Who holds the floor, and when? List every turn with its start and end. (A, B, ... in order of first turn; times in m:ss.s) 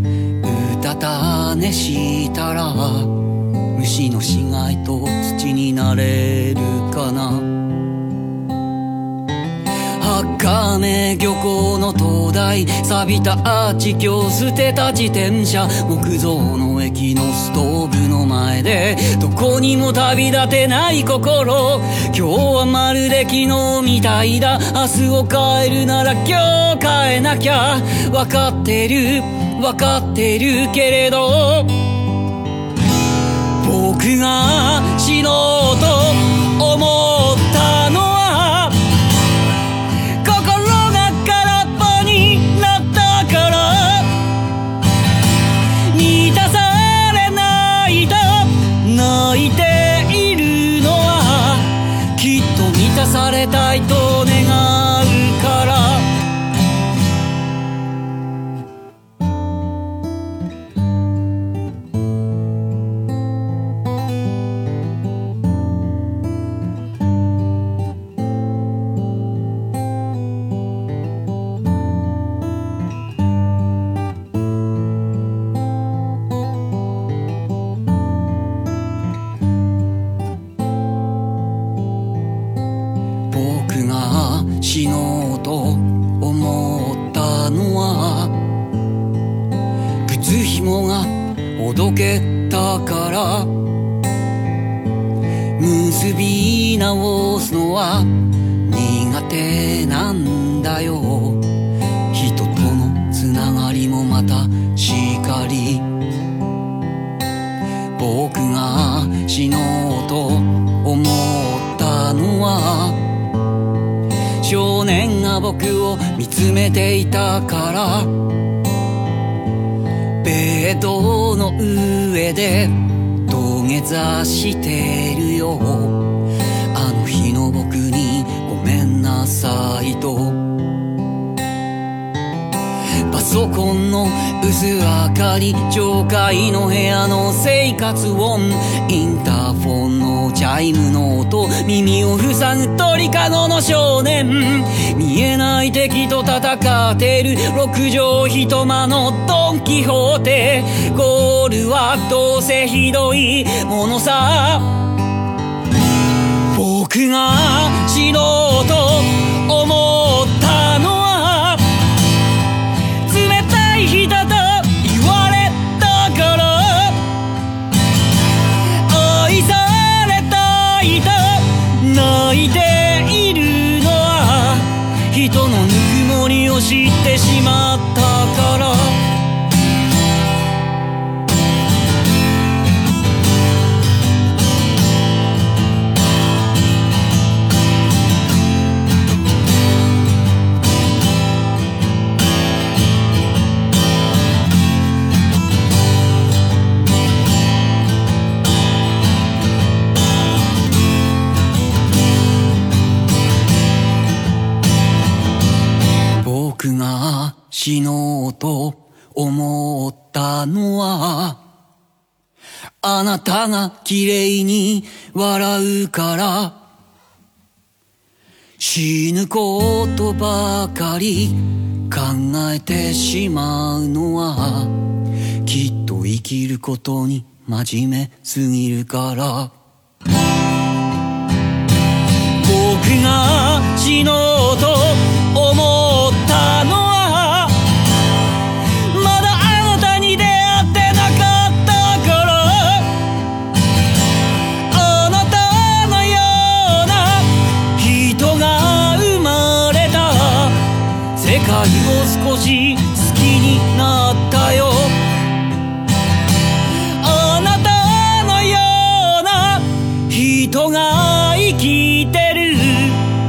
0:00.4-0:03.1 A
0:03.7-0:07.5 A
0:10.0-0:31.7 A
0:33.6-0:38.7 A
0:40.2-0:44.1 A
0:45.9-0:56.0 A
1:23.3-1:28.4 A
1:30.0-1:33.5 A
1:35.6-1:41.4 A
1:42.1-1:45.9 A
1:48.0-1:53.0 A
1:54.4-1:58.1 A
2:00.2-2:02.8 A
2:03.3-2:06.1 A
2:06.7-2:10.4 A
2:13.1-2:34.8 A
2:36.5-2:41.6 A
2:43.0-2:47.0 A
2:48.9-2:59.0 A
3:26.2-3:31.4 A
3:32.8-3:36.6 A
3:38.6-3:44.8 A
3:45.4-3:49.5 A
3:52.4-3:57.5 A
3:58.9-4:02.9 A
4:04.7-4:10.6 A
4:11.1-4:15.0 A
4:17.0-4:23.0 A